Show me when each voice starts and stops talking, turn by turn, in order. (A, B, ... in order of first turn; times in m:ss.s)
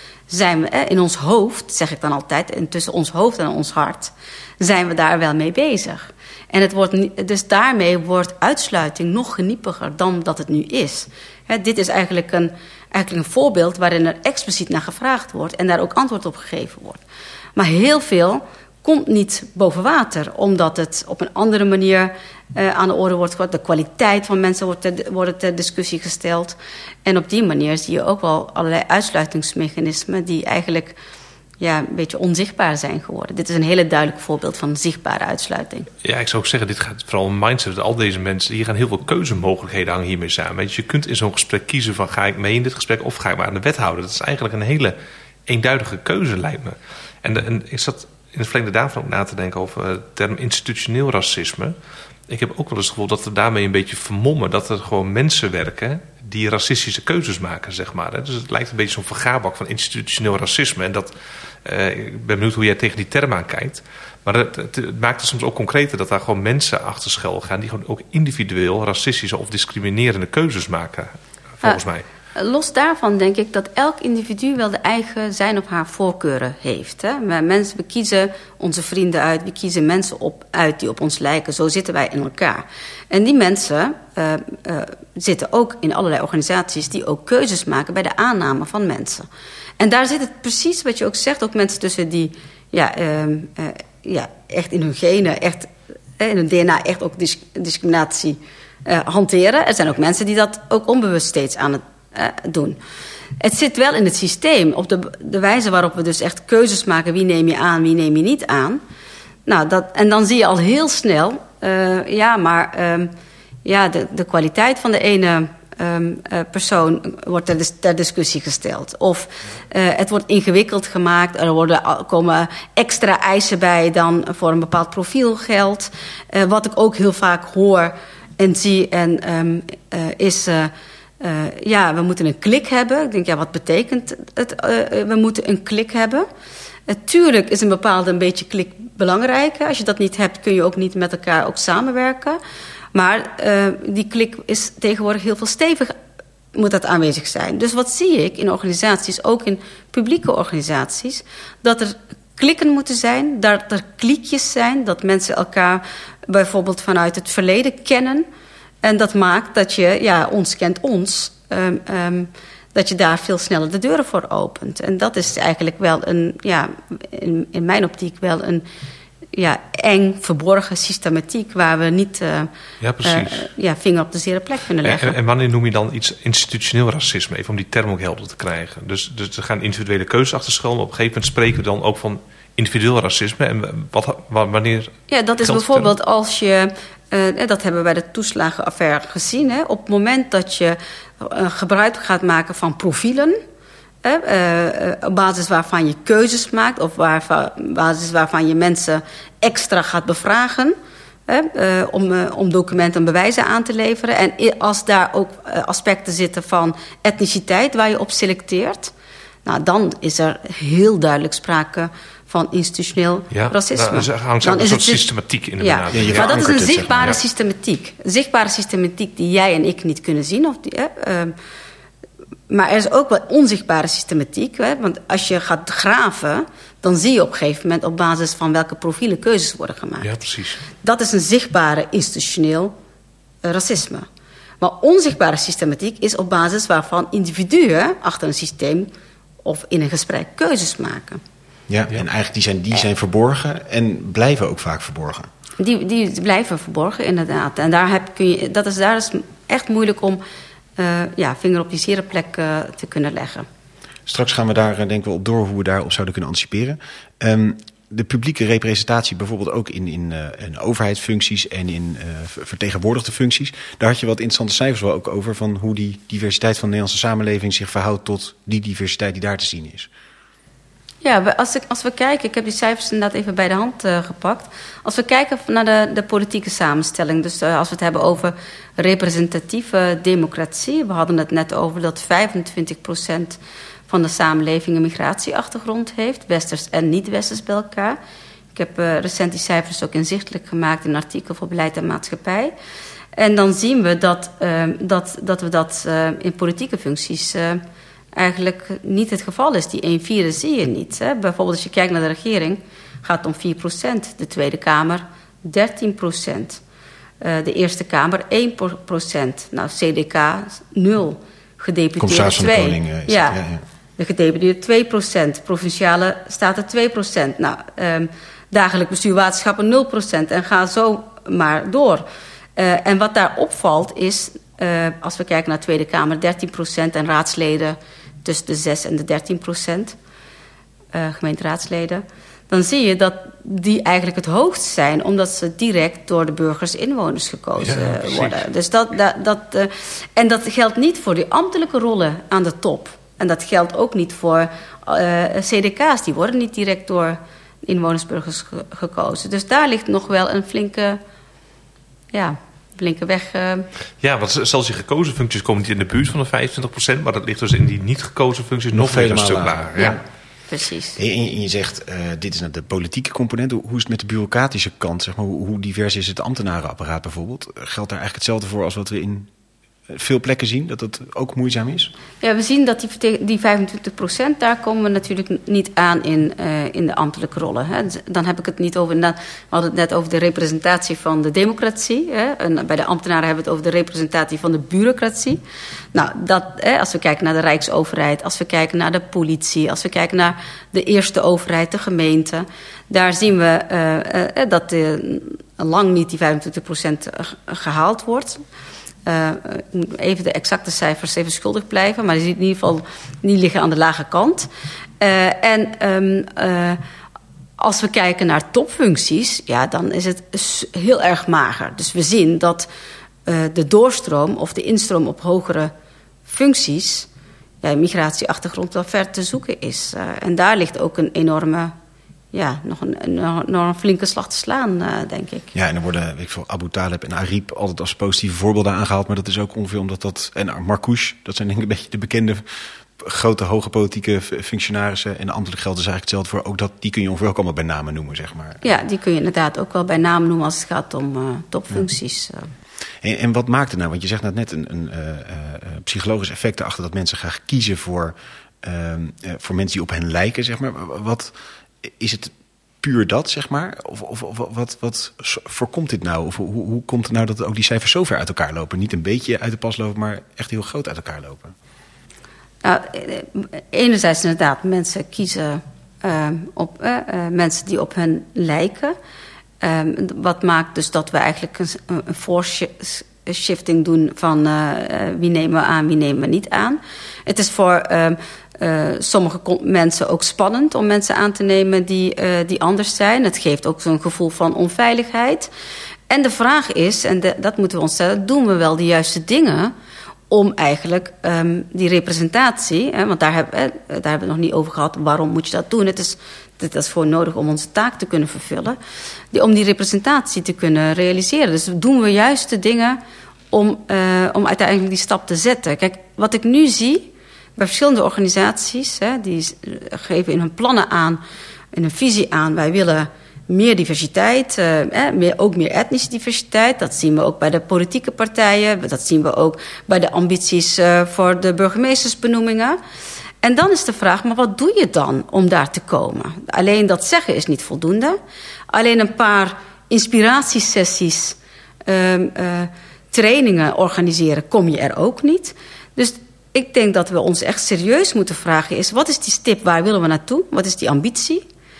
0:00.3-0:17.0 A
0:17.6-0:31.0 A
0:31.6-0:35.9 A
0:36.0-0:45.0 B
0:45.5-0:51.8 B
0:52.3-1:01.1 B
1:01.6-1:12.0 B
1:12.3-1:29.3 A
1:29.8-1:42.8 A
1:43.4-1:48.8 A
1:49.5-1:53.1 A
1:53.6-2:16.3 A
2:16.9-2:22.4 A
2:22.9-2:25.9 A
2:26.5-2:38.3 A
2:38.8-2:48.6 A
2:49.3-2:52.5 A
2:52.8-2:53.5 B
2:53.0-2:55.2 A
2:54.8-3:05.9 B
3:05.1-3:13.4 A
3:14.0-3:20.8 A
3:21.3-3:28.9 A
3:29.4-3:35.0 A
3:33.3-3:37.2 B
3:35.6-3:41.3 A
3:35.9-3:37.2 C
3:42.5-3:50.1 A
3:50.0-3:50.6 B
3:50.8-3:52.7 A
3:53.4-3:54.1 A
3:54.6-3:58.9 A
3:59.4-4:01.2 A
4:01.7-4:05.3 C
4:05.6-4:10.2 A
4:10.8-4:13.5 A
4:14.1-4:29.9 C
4:31.0-4:48.0 A
4:48.5-4:52.5 A
4:53.2-4:57.6 A
4:58.1-5:06.6 A
5:07.2-5:13.4 A
5:12.0-5:13.6 C
5:14.0-5:22.0 A
5:22.6-5:30.0 A
5:30.9-5:51.0 A
5:37.6-5:38.4 B
5:52.1-5:53.6 A
5:54.0-6:00.0 B
5:58.7-6:00.0 C
6:00.5-6:01.0 A
6:01.0-6:09.3 C
6:09.9-6:11.9 C
6:12.2-6:25.4 A
6:25.9-6:38.4 A
6:39.0-6:44.5 A
6:45.0-6:46.8 A
6:47.6-6:52.7 A
6:53.2-6:55.7 A
6:56.2-6:57.1 A
6:57.6-7:01.7 A
7:02.3-7:05.5 A
7:05.5-7:12.4 C
7:13.0-7:18.6 C
7:18.6-7:22.5 A
7:23.0-7:41.5 C
7:42.6-7:48.9 A
7:49.6-8:05.5 A
8:06.1-8:09.7 A
8:10.3-8:18.8 A
8:19.3-8:23.0 A
8:23.5-8:31.2 A
8:31.7-8:42.8 A
8:43.4-8:48.2 A
8:48.7-9:01.4 A